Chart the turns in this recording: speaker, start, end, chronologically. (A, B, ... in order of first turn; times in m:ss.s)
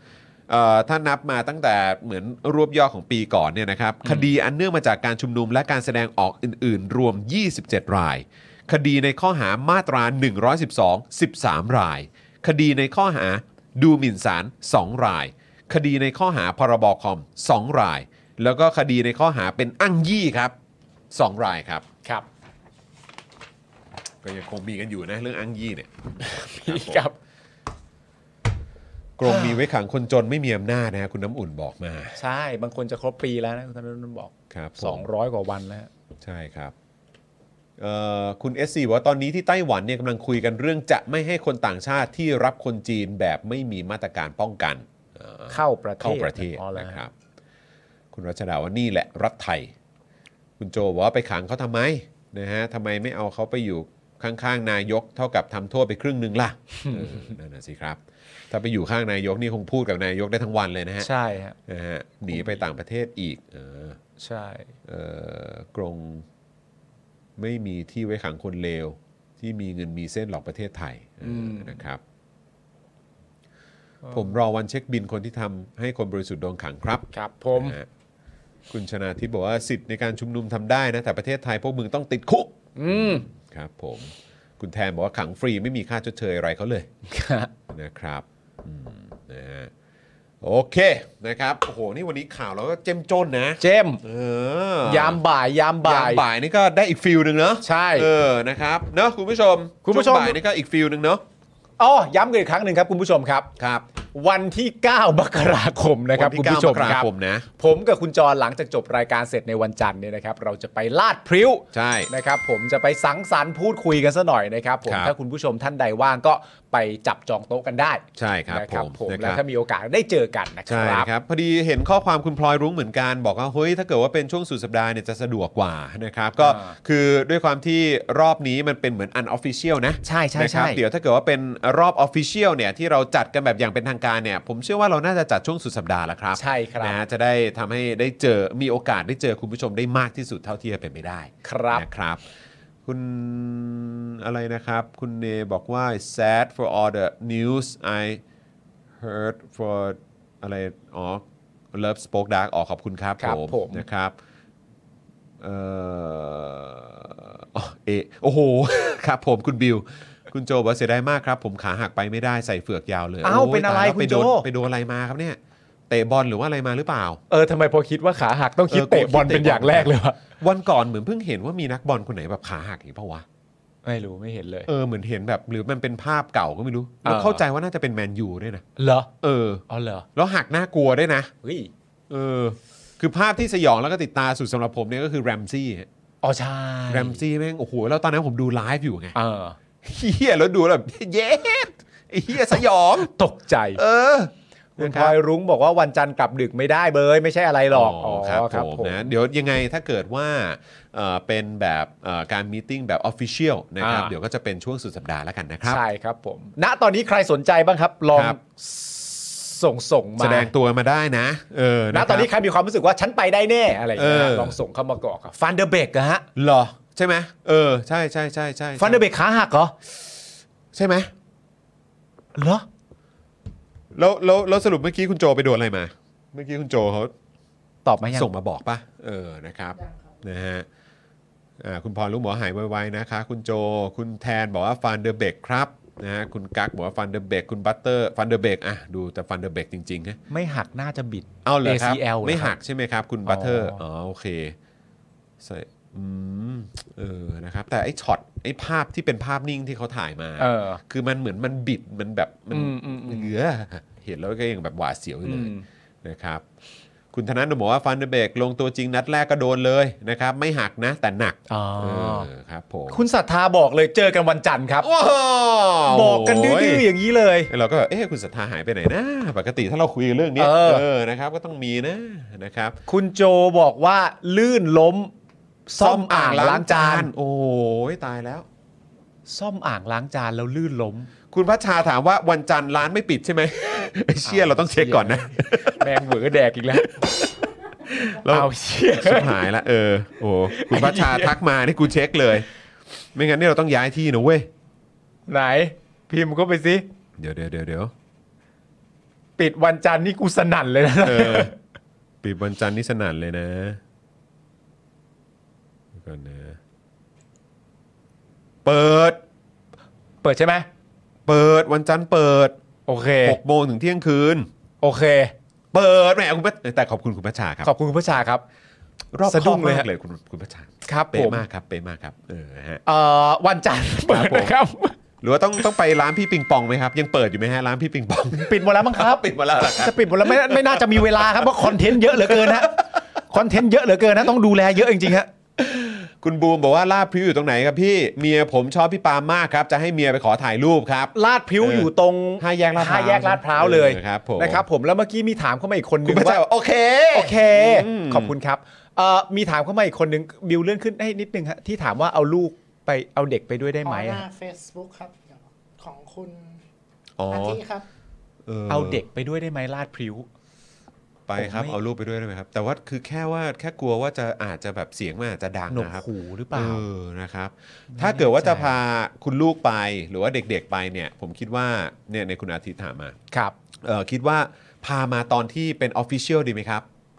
0:00.5-0:20.5 A
0:21.1-0:21.8 A
0:24.2-0:27.0 A
0:26.2-0:27.1 B
0:29.2-0:32.2 A
0:29.2-0:29.6 B
0:32.2-0:35.9 B
0:34.5-0:35.0 A
0:36.2-0:36.7 A
0:37.8-0:47.1 A
0:45.5-0:47.0 B
0:48.1-0:49.7 A
0:50.6-0:58.0 A
0:56.8-0:57.3 B
0:58.5-1:01.1 A
1:01.0-1:01.6 B
1:01.7-1:04.0 A
1:02.3-1:02.6 B
1:04.2-1:04.7 B
1:04.8-1:06.2 A
1:07.4-1:12.0 A
1:11.2-1:11.8 B
1:14.0-1:14.3 B
1:14.1-1:17.8 A
1:17.1-1:17.8 B
1:18.7-1:26.9 A
1:22.8-1:23.2 B
1:27.1-1:27.5 B
1:27.7-1:29.7 A
1:30.4-1:35.2 A
1:33.6-1:34.0 B
1:34.8-1:36.2 B
1:35.8-1:41.2 A
1:37.6-1:38.1 B
1:39.8-1:40.4 B
1:41.8-1:43.5 B
1:43.6-1:43.8 A
1:44.1-1:47.0 B
1:46.2-1:47.5 A
1:47.6-2:01.1 B
1:51.7-1:52.1 A
1:54.8-1:55.1 A
1:58.2-1:59.4 A
2:00.7-2:22.2 A
2:06.4-2:06.8 B
2:10.0-2:10.8 B
2:16.3-2:17.0 B
2:21.4-2:21.8 B
2:22.8-2:28.2 A
2:29.0-2:31.2 A
2:31.7-2:34.1 A
2:33.2-2:33.8 B
2:35.4-2:45.4 A
2:43.2-2:44.4 B
2:45.9-2:47.2 A
2:47.3-2:50.2 B
2:48.7-2:53.2 A
2:53.8-2:54.7 B
2:54.7-2:58.6 A
2:57.0-2:57.4 B
2:58.8-2:59.1 B
2:59.2-3:01.3 A
2:59.7-3:00.0 B
3:01.4-3:01.7 B
3:02.1-3:05.9 A
3:06.2-3:07.2 B
3:06.9-3:09.1 A
3:09.1-3:09.6 B
3:09.8-3:13.1 A
3:12.5-3:13.8 B
3:13.8-3:15.1 A
3:14.8-3:19.1 B
3:17.7-3:25.8 A
3:23.8-3:24.1 B
3:25.6-3:30.5 B
3:30.2-3:32.3 A
3:31.9-3:36.2 B
3:34.0-3:34.6 A
3:36.4-3:39.0 A
3:38.8-3:39.7 B
3:40.7-3:41.1 A
3:42.4-3:42.6 B
3:43.9-3:47.1 A
3:47.8-3:48.3 B
3:48.1-3:50.6 A
3:49.7-3:50.1 C
3:51.6-4:00.2 A
4:00.3-4:02.5 B
4:01.4-4:04.5 A
4:03.2-4:03.8 B
4:05.4-4:16.4 A
4:10.4-4:10.8 B
4:12.5-4:13.3 B
4:15.2-4:15.6 B
4:17.1-4:23.0 A
4:21.5-4:22.3 B
4:22.9-4:24.9 B
4:24.8-4:26.8 A
4:25.9-4:27.5 B
4:27.5-4:32.8 A
4:30.4-4:30.8 B
4:32.9-4:35.1 B
4:35.7-4:37.1 B
4:35.8-4:38.4 A
4:39.3-4:41.1 B
4:41.3-4:45.9 A
4:44.2-4:46.9 B
4:46.8-4:47.3 A
4:47.8-4:52.5 A
4:48.2-4:49.4 B
4:50.5-4:51.4 B
4:53.1-4:54.5 A
4:55.3-4:56.8 B
4:57.2-4:57.9 A
4:59.4-5:01.5 B
5:01.0-5:01.5 A
5:02.2-5:03.8 A
5:05.9-5:06.6 A
5:08.6-5:09.2 A
5:10.2-5:10.7 B
5:11.3-5:12.5 A
5:12.9-5:13.4 B
5:13.2-5:14.5 A
5:14.8-5:15.3 B
5:15.7-5:17.7 A
5:17.6-5:18.4 B
5:19.1-5:22.8 A
5:19.3-5:19.9 B
5:20.8-5:21.4 B
5:22.8-5:24.9 B
5:24.1-5:24.5 A
5:25.2-5:33.0 A
5:28.3-5:32.8 B
5:33.3-5:35.3 B
5:35.6-5:44.6 A
5:41.1-5:46.4 B
5:46.0-5:48.3 A
5:47.1-5:54.2 B
5:53.8-5:56.6 C
5:57.2-5:57.6 A
5:57.3-5:57.8 C
5:58.4-5:59.0 A
5:58.7-6:00.3 B
6:01.3-6:13.2 A
6:01.4-6:01.8 B
6:05.7-6:06.8 B
6:07.9-6:08.8 B
6:13.8-6:16.8 A